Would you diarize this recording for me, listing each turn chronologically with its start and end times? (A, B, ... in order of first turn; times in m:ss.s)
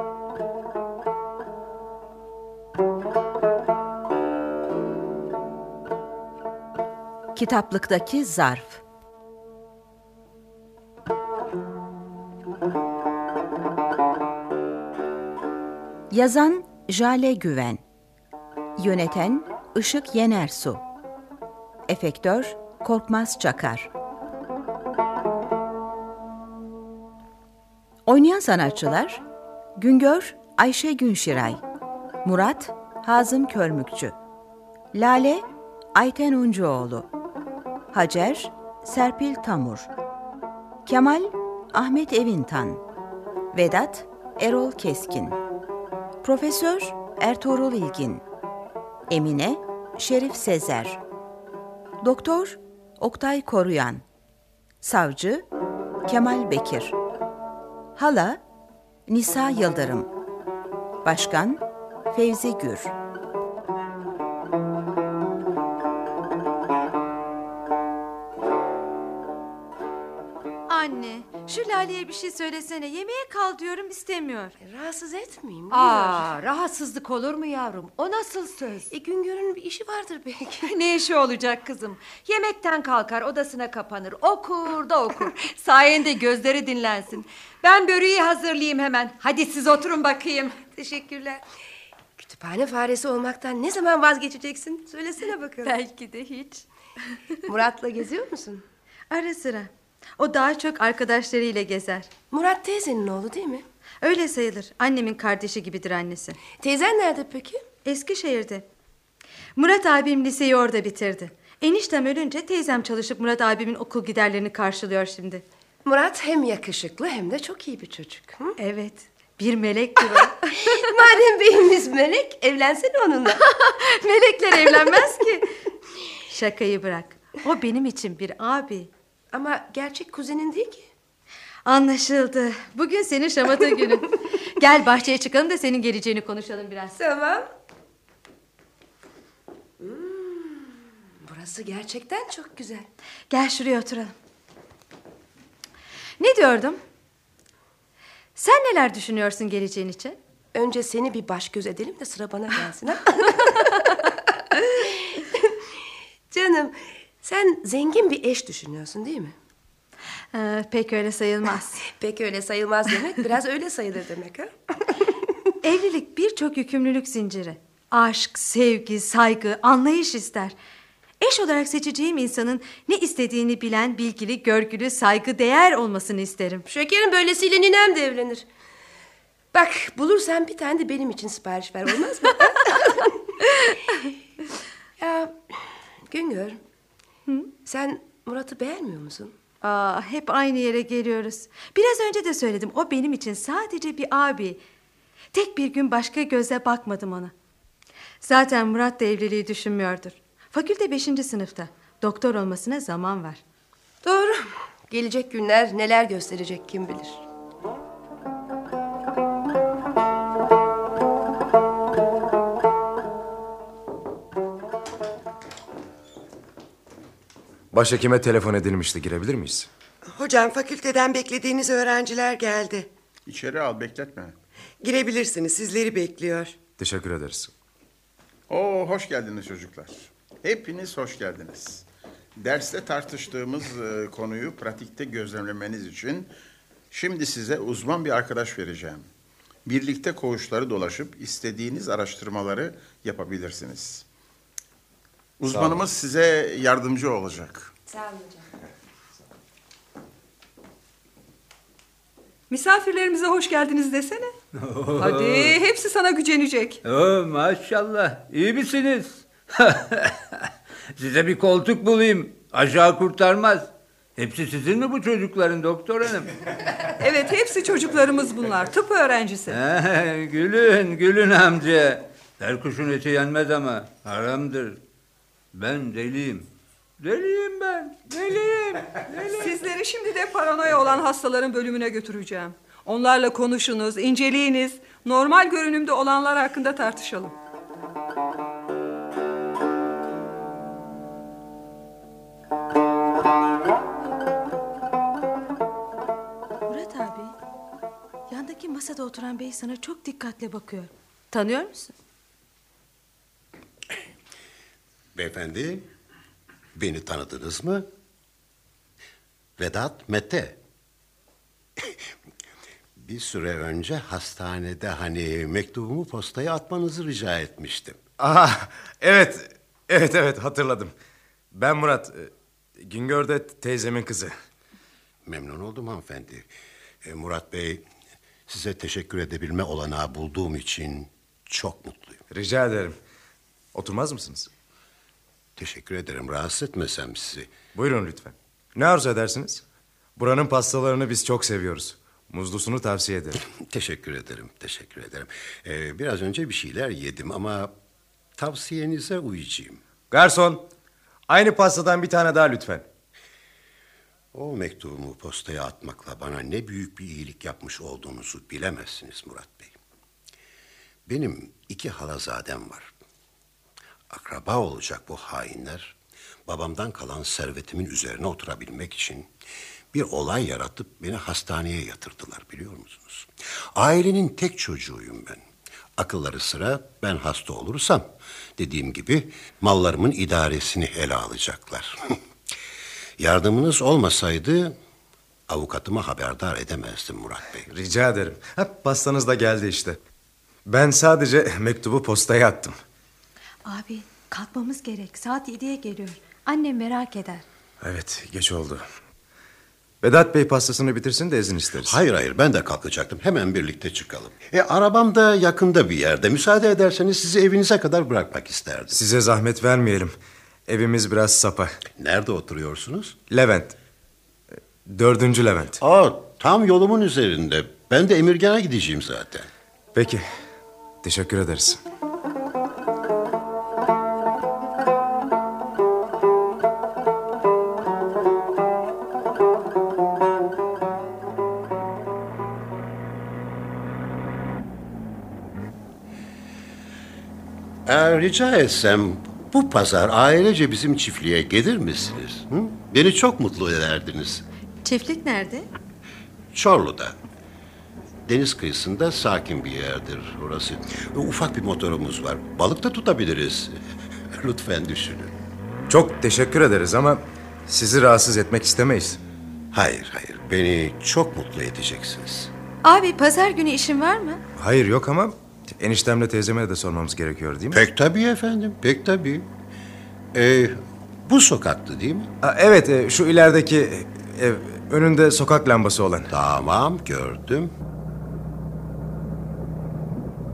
0:07.3-0:08.8 A
0:16.1-0:17.8 A
0:18.8-0:20.8 A
0:21.9-0:23.9 A
0:28.0-0:29.2 A
0:29.8-0:31.6 A
0:32.2-0:34.2 A
0:34.9-0:37.1 A
0:37.9-0:39.9 A
0:40.8-0:42.8 A
0:43.5-0:45.4 A
0:46.2-0:48.2 A
0:49.1-0:51.0 A
0:52.0-0:54.0 A
0:54.8-0:55.4 A
0:56.0-0:57.0 A
0:58.0-0:58.4 A
0:59.1-1:00.1 A
1:01.0-1:02.9 A
1:10.7-1:14.5 B
1:14.6-1:16.3 C
1:15.7-1:18.9 D
1:18.9-1:20.7 C
1:20.6-1:30.6 D
1:30.7-1:31.4 C
1:32.2-1:35.7 C
1:35.6-1:37.4 B
1:37.5-1:38.6 C
1:39.1-1:42.1 B
1:42.3-1:43.6 C
1:44.0-1:46.4 B
1:46.6-1:47.6 C
1:47.8-1:48.7 B
1:49.6-1:55.4 B
1:55.8-1:58.6 C
1:58.6-2:00.8 B
2:00.5-2:03.4 C
2:03.4-2:05.5 B
2:06.3-2:08.9 B
2:09.3-2:10.9 C
2:11.6-2:17.0 B
2:17.0-2:17.5 C
2:19.8-2:22.9 C
2:23.3-2:24.1 B
2:26.2-2:26.8 B
2:28.4-2:30.2 B
2:30.5-2:35.7 C
2:36.3-2:39.3 C
2:40.3-2:41.8 B
2:41.8-2:44.9 C
2:45.6-2:50.5 B
2:51.2-2:56.6 B
2:56.7-2:58.4 C
2:59.5-3:03.2 C
3:05.0-3:06.6 C
3:07.6-3:09.4 C
3:09.6-3:14.6 B
3:15.3-3:17.3 B
3:18.2-3:23.4 B
3:24.0-3:27.2 C
3:37.7-3:39.7 E
3:40.0-3:42.9 F
3:43.3-3:44.3 G
3:44.8-3:46.6 F
3:46.8-3:47.5 E
3:48.5-3:51.8 G
3:52.4-3:56.3 G
3:56.9-3:59.1 G
3:59.6-4:04.0 G
4:05.4-4:07.7 G
4:05.5-4:05.8 E
4:07.9-4:08.4 D
4:12.5-4:14.3 H
4:14.6-4:15.5 I
4:15.0-4:16.8 H
4:16.8-4:20.2 I
4:21.0-4:26.3 I
4:27.0-4:29.6 H
4:29.5-4:34.8 I
4:35.5-4:36.5 I
4:37.0-4:39.5 I
4:39.3-4:47.3 H
4:56.7-4:57.4 B
4:58.3-5:01.9 B
5:05.1-5:05.9 J
5:06.7-5:07.9 J
5:09.6-5:10.6 J
5:13.0-5:18.0 J
5:18.2-5:20.9 E
5:21.5-5:24.3 E
5:25.2-5:26.5 J
5:27.0-5:27.8 J
5:28.5-5:32.2 J
5:32.3-5:33.0 E
5:33.7-5:34.5 E
5:35.6-5:37.6 J
5:37.7-5:39.6 E
5:40.2-5:43.4 E
5:43.5-5:47.7 J
5:48.4-5:49.8 J
5:50.1-5:50.6 E
5:51.3-5:52.8 E
5:54.3-5:59.8 J
6:01.1-6:02.9 J
6:04.1-6:09.3 J
6:09.9-6:15.4 J
6:16.0-6:22.2 J
6:23.2-6:24.8 J
6:25.5-6:27.7 J
6:27.7-6:30.0 E
6:30.7-6:32.8 E
6:33.6-6:37.4 B
6:37.8-6:38.8 E
6:40.0-6:42.0 E
6:41.8-6:49.0 J
6:48.9-6:50.1 E
6:50.7-6:51.8 E
6:51.9-6:53.2 J
6:53.3-6:53.8 E
6:54.8-6:55.8 E
6:55.8-6:59.5 J
6:59.9-7:00.2 E
7:01.0-7:01.8 E
7:17.8-7:24.4 J
7:24.8-7:25.7 B
7:26.5-7:27.2 J
7:28.3-7:33.8 J
7:34.3-7:35.3 J
7:35.9-7:39.2 E
7:39.7-7:42.5 J
7:42.8-7:44.4 B
7:44.6-7:47.8 E
7:47.7-7:49.5 J
7:50.3-7:52.3 J
7:52.4-7:56.3 E
7:56.3-7:57.7 J